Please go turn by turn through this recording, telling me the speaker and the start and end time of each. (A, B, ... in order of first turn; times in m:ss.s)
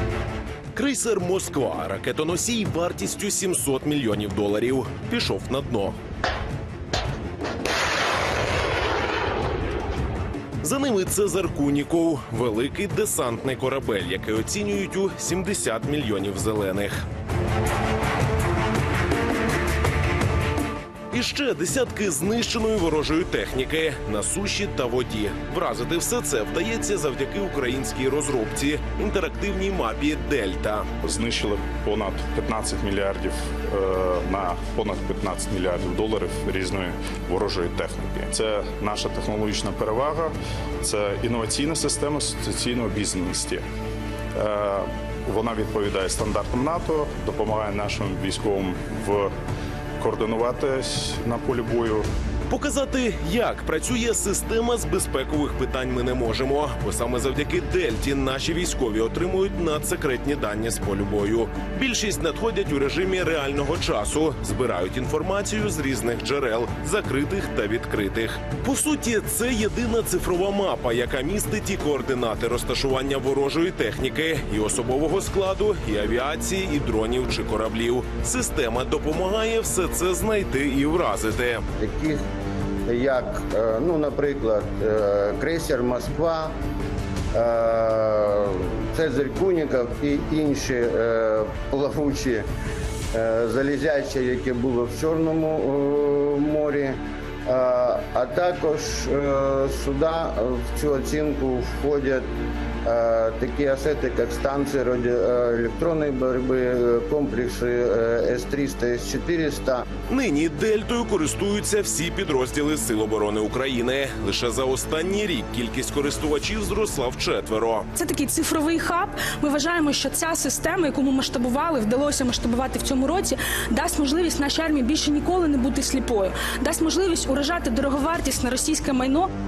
0:00.7-0:06.0 A
0:10.6-0:17.0 A
0:21.1-0:30.9 A
0:31.0-0:43.6 B
0:44.4-0:49.3 B
0:50.0-0:52.1 B
0:52.5-1:21.7 A
1:21.8-1:22.2 C
1:22.9-1:26.5 C
1:27.3-1:32.4 C
1:33.1-1:42.2 C
1:42.8-1:49.8 C
1:50.1-1:57.9 A
1:57.9-2:09.3 D